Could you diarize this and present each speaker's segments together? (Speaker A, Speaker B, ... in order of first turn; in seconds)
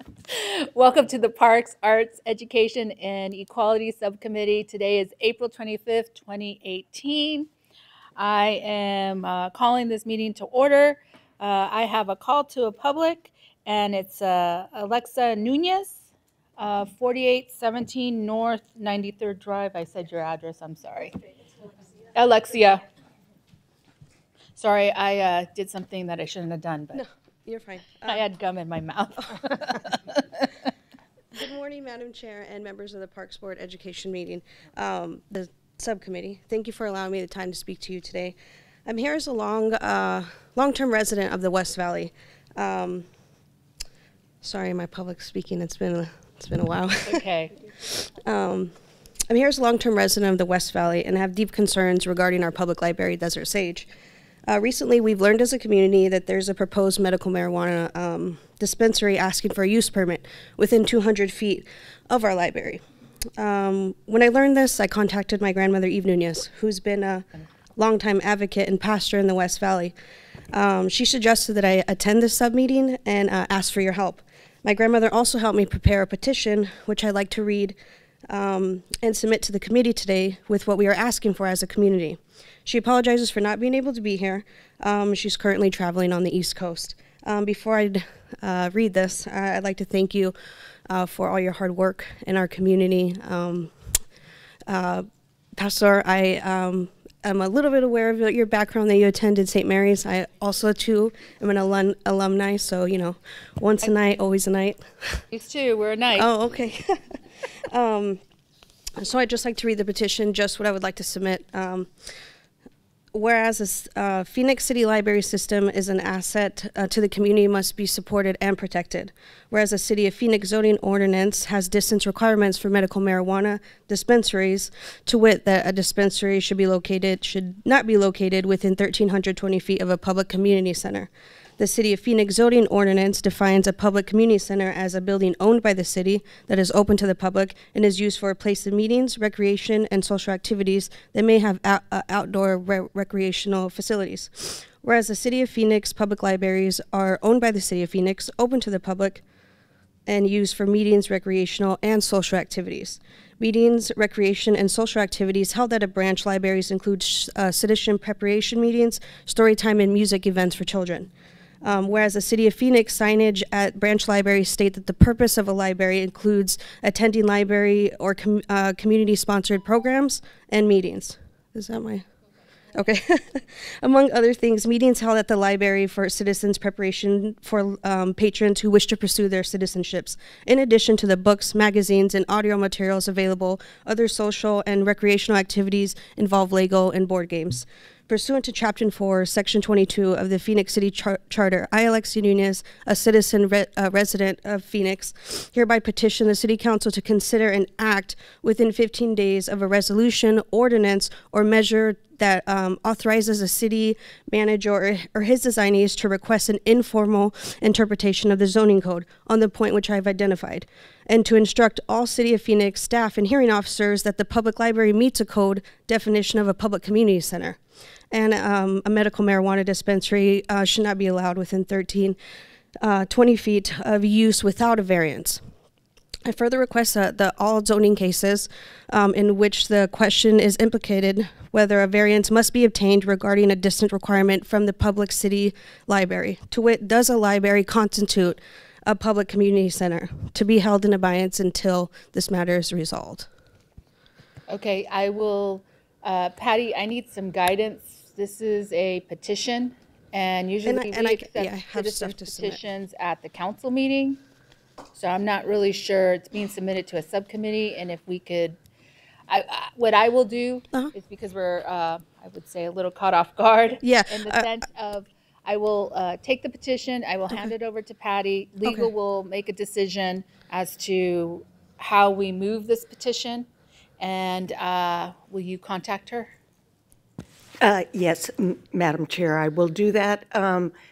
Speaker A: 0.3-7.5, 8.2-21.2, 22.0-22.8, 24.6-27.0, 28.0-30.5, 47.0-47.5, 105.3-106.3, 244.5-254.2, 254.9-258.6, 259.3-273.5, 274.0-276.3
Speaker B: 26.9-28.2, 31.4-43.1, 44.4-47.2, 48.1-53.9, 54.5-62.8, 63.4-70.0, 70.5-77.8, 78.3-90.4, 90.9-94.0, 94.7-105.2, 106.2-107.0, 107.7-108.2, 109.0-112.2, 113.1-149.2, 150.1-161.1, 161.6-172.1, 172.7-217.6, 218.1-222.2, 222.8-225.4, 226.2-243.3, 250.7-252.6, 263.8-264.5, 268.6-268.9
Speaker C: 277.6-280.8